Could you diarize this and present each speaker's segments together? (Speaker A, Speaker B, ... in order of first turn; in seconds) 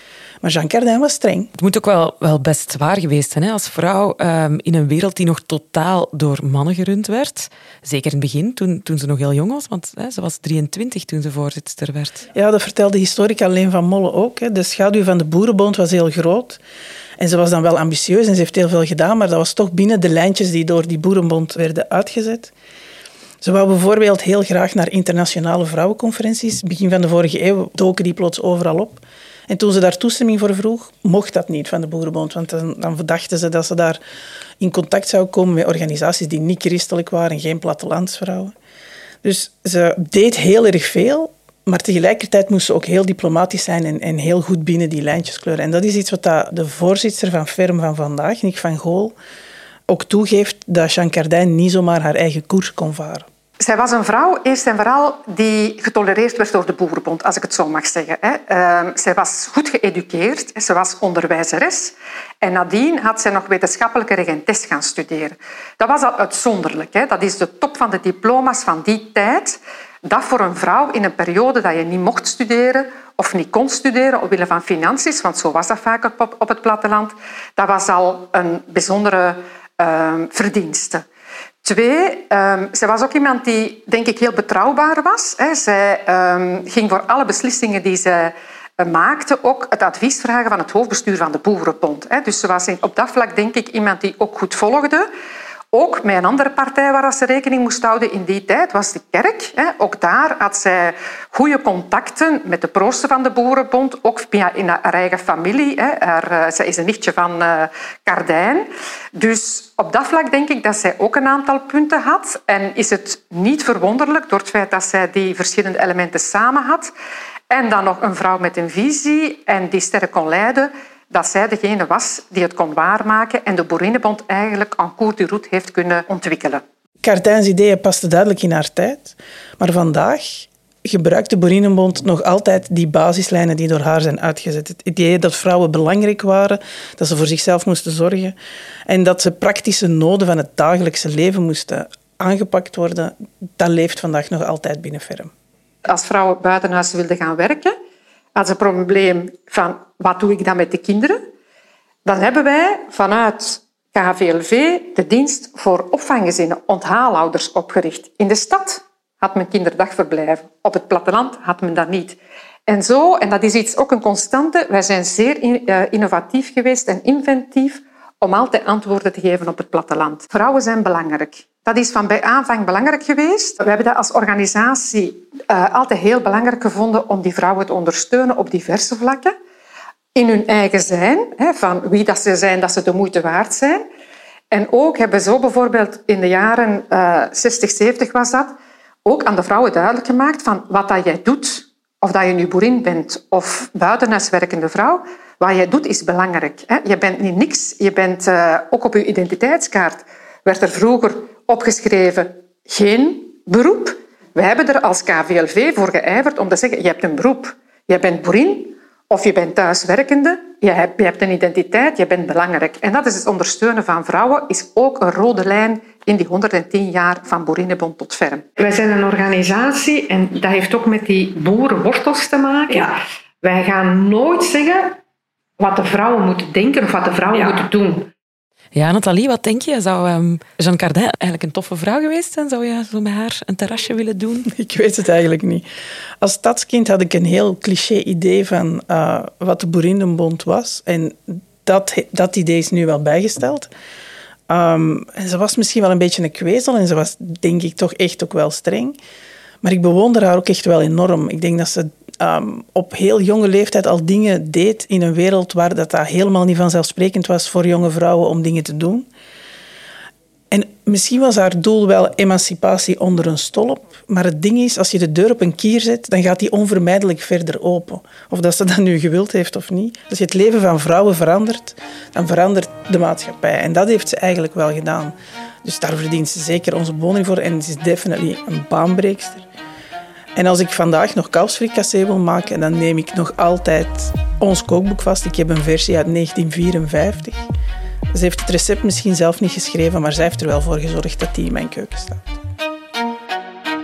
Speaker A: 0.4-1.5, 12.3-16.6, 17.2-22.5, 23.4-34.0, 34.6-38.5, 39.2-49.1, 49.9-53.2, 127.0-138.3, 138.9-145.3, 234.4-235.6, 236.2-243.7, 244.5-249.0, 249.6-259.1, 260.5-279.5, 280.4-287.5, 288.1-292.4
Speaker B: 1.6-12.2, 228.7-234.5
Speaker C: 53.6-81.0, 81.6-95.0, 95.7-116.9, 117.5-126.6, 145.9-147.7, 148.3-151.2, 152.0-179.3, 180.1-183.8, 184.5-219.1, 220.3-220.8, 225.6-227.9
Speaker D: 218.8-220.1, 221.3-222.8, 223.6-224.7, 225.8-227.8